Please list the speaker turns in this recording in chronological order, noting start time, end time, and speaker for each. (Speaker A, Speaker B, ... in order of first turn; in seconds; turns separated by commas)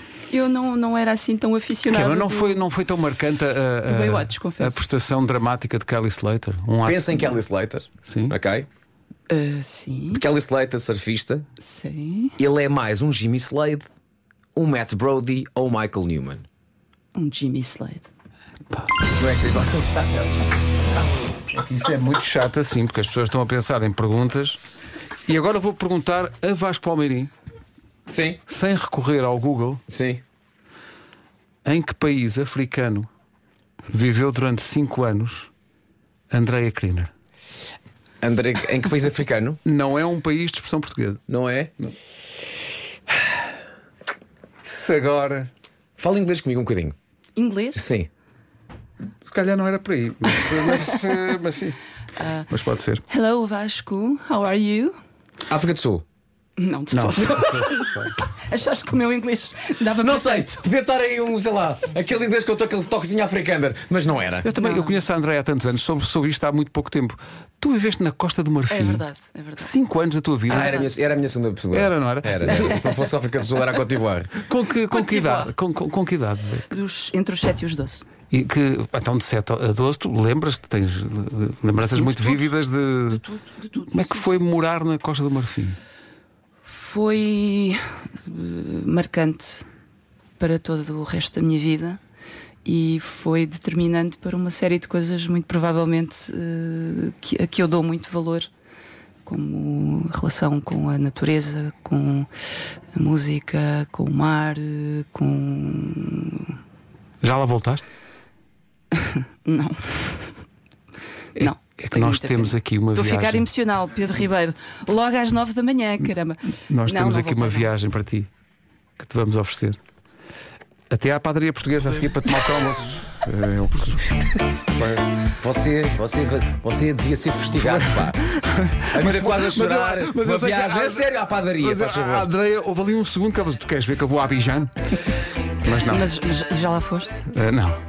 Speaker A: 0.3-2.6, Speaker B: 1.9-7.4, Speaker A: 3.8-4.8, Speaker C: 6.8-8.7, Speaker B: 8.1-8.3, Speaker A: 9.3-10.2, Speaker C: 10.1-11.4, Speaker A: 11.6-12.4, Speaker C: 12.4-13.9, Speaker C: 14.6-16.4, Speaker A: 17.1-18.1, Speaker C: 19.2-20.3, Speaker B: 21.5-24.6, Speaker B: 25.3-27.3, Speaker C: 28.1-28.4, Speaker B: 28.5-29.8, Speaker C: 29.9-30.2, Speaker B: 31.6-33.1, Speaker B: 33.9-35.5, Speaker B: 36.3-37.1, Speaker C: 38.2-39.6, Speaker B: 39.6-41.2, Speaker C: 41.3-41.7, Speaker B: 44.6-45.5, Speaker C: 46.0-47.0, Speaker A: 47.4-47.8, Speaker C: 47.8-48.1, Speaker B: 49.2-51.8, Speaker A: 50.4-51.4, Speaker A: 52.2-52.5, Speaker B: 52.5-53.0, Speaker A: 53.1-55.0, Speaker C: 55.5-56.0, Speaker A: 56.6-60.6, Speaker B: 56.9-58.1, Speaker C: 60.0-64.5, Speaker B: 64.4-69.0, Speaker A: 64.6-65.0, Speaker A: 68.7-69.7, Speaker B: 69.6-70.8, Speaker A: 70.5-70.9, Speaker C: 70.5-74.4, Speaker B: 71.7-72.8, Speaker A: 72.5-73.1, Speaker B: 74.4-76.7, Speaker A: 74.9-75.5, Speaker A: 76.7-78.1, Speaker B: 78.3-83.2, Speaker A: 81.8-82.5, Speaker A: 83.1-84.3, Speaker B: 83.9-85.8, Speaker A: 86.7-89.7, Speaker A: 90.4-92.0, Speaker A: 92.6-98.5, Speaker A: 99.2-102.3, Speaker A: 103.0-106.5, Speaker B: 107.2-107.8, Speaker A: 108.9-110.3, Speaker B: 111.4-113.5, Speaker A: 111.4-117.7, Speaker B: 116.7-118.3, Speaker B: 119.0-119.8, Speaker B: 120.9-124.2, Speaker B: 124.8-125.0, Speaker C: 125.4-128.2, Speaker B: 127.6-134.7, Speaker C: 128.9-132.3, Speaker B: 135.6-136.1, Speaker A: 135.8-137.2, Speaker B: 137.3-137.8